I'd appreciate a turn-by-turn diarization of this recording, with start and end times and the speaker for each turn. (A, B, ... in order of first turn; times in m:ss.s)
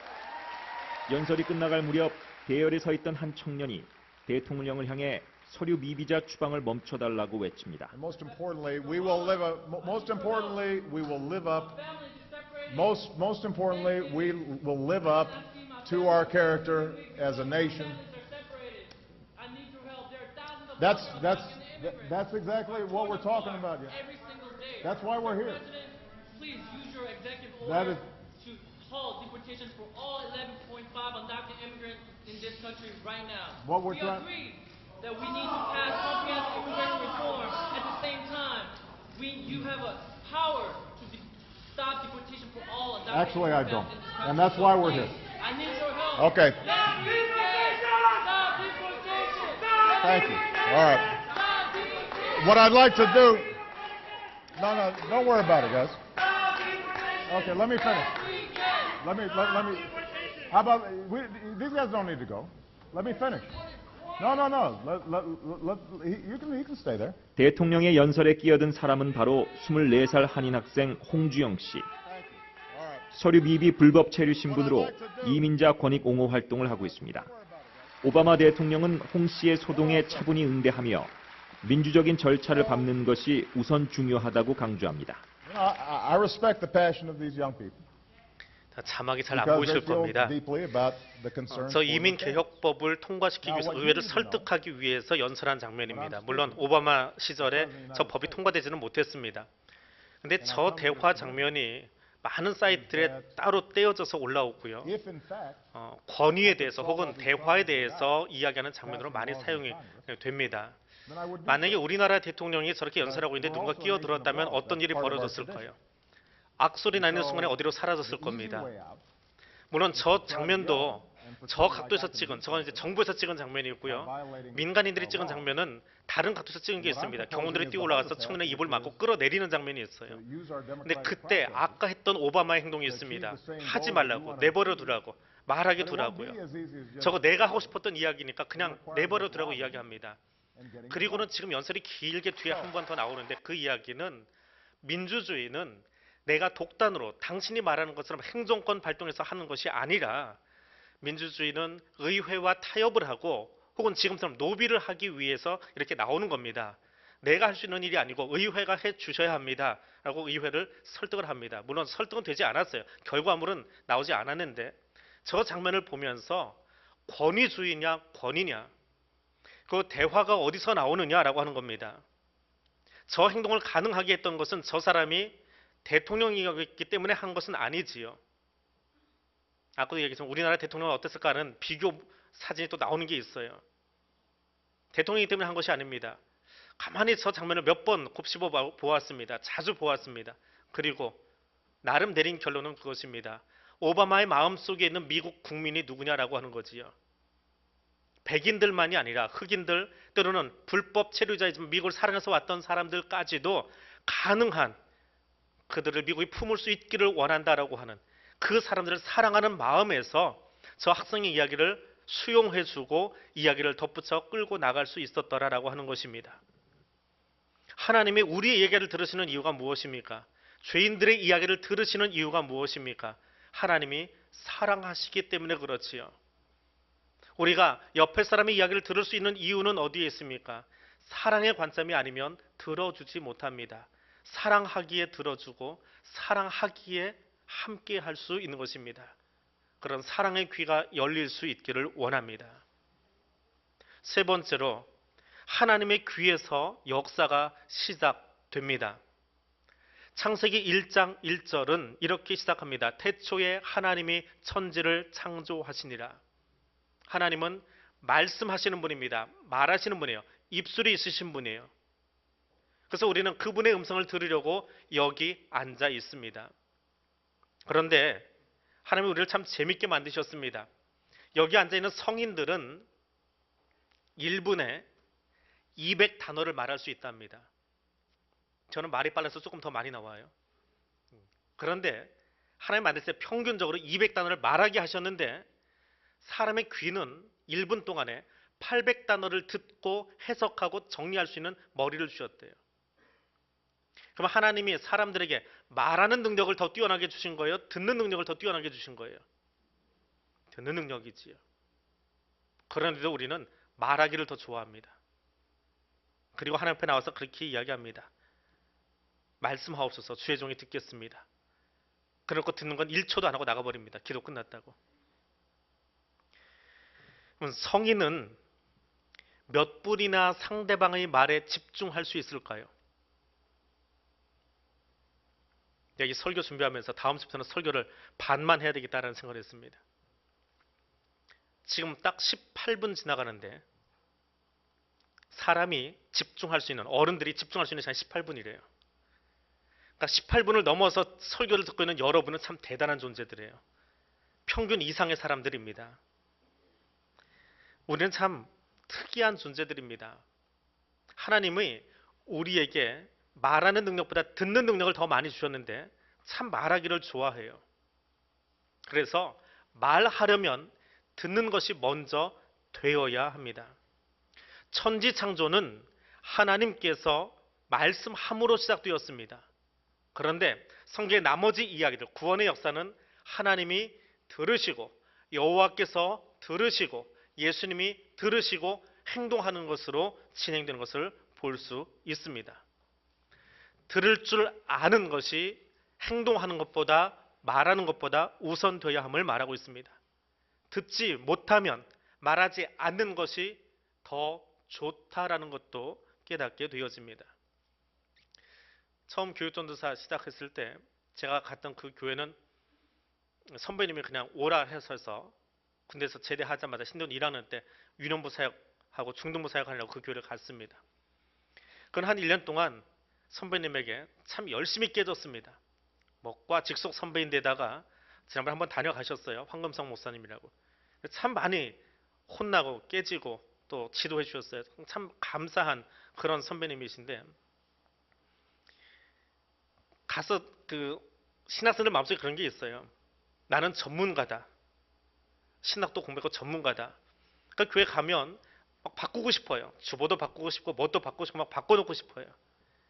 0:01.1-0:07.9 A
0:07.9-0:11.8 B
0:08.2-0:13.1 C
0:12.7-0:18.0 B
0:13.6-0:49.9 C
0:20.8-0:24.0 B
0:24.8-0:25.6 B
0:27.6-0:28.0 B
0:33.6-0:34.3 B
0:39.4-0:39.7 B
0:43.1-0:45.2 B
0:46.1-0:46.6 B
0:50.0-0:51.2 B
0:51.2-0:52.9 C
0:52.3-0:53.6 B
0:54.5-0:56.0 B
0:57.2-0:58.3 B
0:58.1-0:59.0 C
0:59.0-0:59.9 B
1:00.5-1:03.5 B
1:04.2-1:07.2 B
1:07.4-1:11.9 A
1:12.0-1:13.1 B
1:13.1-1:17.3 A
1:14.4-1:15.5 B
1:16.3-1:18.0 B
1:18.0-1:25.2 A
1:19.7-1:20.3 B
1:22.4-1:22.9 B
1:25.4-1:27.8 B
1:28.7-1:30.3 D
1:29.3-1:32.5 B
1:31.5-1:39.5 D
1:33.4-1:34.5 B
1:35.9-1:36.7 B
1:37.4-1:38.4 B
1:40.2-1:44.9 D
1:40.4-1:41.5 B
1:42.6-1:43.4 B
1:44.8-1:45.6 B
1:45.8-1:50.8 D
1:46.4-1:48.1 B
1:48.8-1:50.1 B
1:51.0-1:51.8 B
1:51.4-1:55.8 D
1:53.0-1:55.7 B
1:56.6-1:58.7 D
1:56.9-1:59.0 B
1:59.7-2:10.2 D
1:59.9-2:02.9 B
2:03.8-2:05.5 B
2:06.8-2:09.0 B
2:10.1-2:11.8 B
2:10.8-2:16.4 D
2:12.8-2:15.0 B
2:15.8-2:17.8 B
2:17.0-2:20.2 D
2:18.5-2:19.8 B
2:20.5-2:21.3 B
2:20.9-2:24.3 D
2:22.5-2:22.7 B
2:24.8-2:30.4 D
2:31.0-2:48.7 D
2:49.7-2:52.0 D
2:53.1-2:58.2 D
2:59.8-3:03.6 D
3:04.9-3:06.2 D
3:06.8-3:11.2 D
3:11.8-3:16.9 D
3:18.2-3:24.8 D
3:25.7-3:36.4 D
3:37.8-3:46.1 D
3:47.4-3:59.1 D
3:59.8-4:02.6 D
4:04.0-4:04.9 D
4:05.5-4:09.0 D
4:10.1-4:16.2 D
4:17.1-4:21.7 D
4:22.9-4:26.5 D
4:27.7-4:28.3 D
4:28.8-4:30.7 D
4:31.3-4:32.8 D
4:34.2-4:34.9 D
4:35.8-4:37.5 D
4:38.7-4:40.3 D
4:41.6-4:45.5 D
4:46.2-4:52.6 D
4:54.2-4:59.2 D
5:00.5-5:01.4 D
5:02.7-5:05.0 D
5:06.3-5:08.1 D
5:09.4-5:11.2 D
5:12.3-5:14.8 D
5:17.4-5:18.4 D
5:19.5-5:22.7 D
5:26.0-5:29.8 D
5:31.6-5:33.6 D
5:35.3-5:38.6 D
5:40.0-5:43.6 D
5:44.5-5:46.0 D
5:47.9-5:50.2 D
5:51.2-5:57.6 D
5:58.9-6:03.8 D
6:04.7-6:09.5 D
6:10.1-6:22.6 D
6:23.9-6:30.0 D
6:30.7-6:37.3 D
6:39.1-6:42.4 D
6:43.5-6:45.3 D
6:45.9-6:50.8 D
6:51.9-6:55.6 D
6:56.2-7:07.3 D
7:10.1-7:12.9 D
7:13.5-7:14.5 D
7:15.6-7:17.0 D
7:17.6-7:22.3 D